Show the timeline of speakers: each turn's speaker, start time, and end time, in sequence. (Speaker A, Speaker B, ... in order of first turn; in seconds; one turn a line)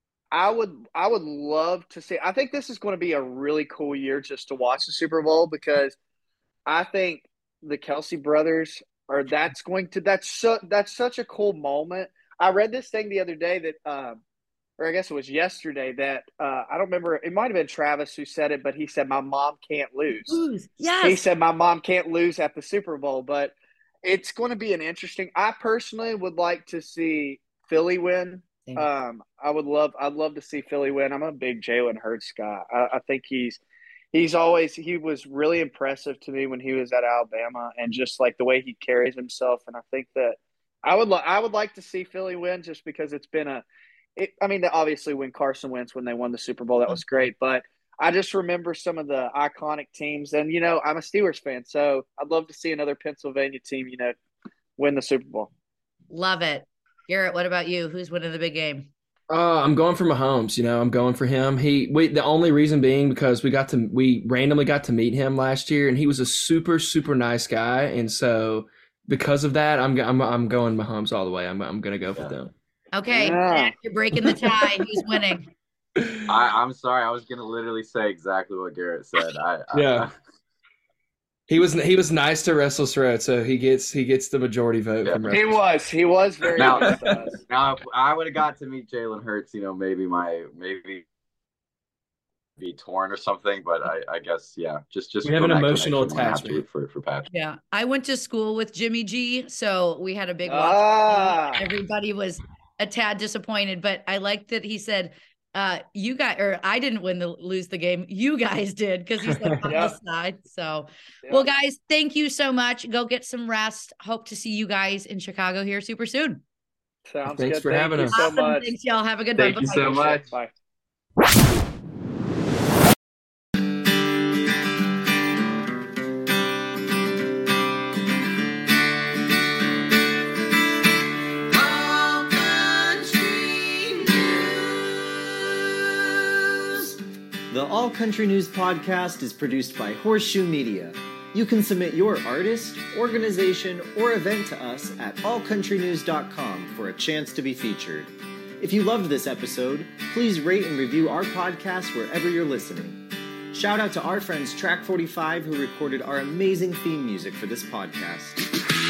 Speaker A: 0.3-6.0
Speaker A: 6.7-14.2
Speaker A: 14.8-20.4
Speaker B: 20.1-21.2
Speaker A: 21.0-33.6
Speaker A: 34.1-43.6
Speaker A: 44.1-54.2
Speaker A: 54.8-55.5
Speaker B: 56.1-58.9
Speaker C: 59.3-72.5
Speaker B: 72.9-75.5
Speaker A: 73.1-73.7
Speaker C: 76.0-76.2
Speaker D: 76.3-80.1
Speaker C: 79.7-80.1
Speaker C: 81.5-85.5
Speaker D: 85.0-85.3
Speaker A: 85.3-87.4
Speaker D: 86.5-91.0
Speaker C: 86.6-87.2
Speaker D: 92.6-97.3
Speaker C: 95.2-96.6
Speaker B: 97.3-116.4
Speaker A: 100.4-101.6
Speaker C: 109.2-109.7
Speaker A: 109.6-110.0
Speaker A: 117.1-118.7
Speaker C: 117.2-118.2
Speaker B: 118.1-120.2
Speaker D: 119.4-120.2
Speaker A: 119.6-120.5
Speaker E: 131.5-134.8
Speaker E: 136.5-136.9
Speaker E: 137.5-153.0
Speaker E: 153.5-158.4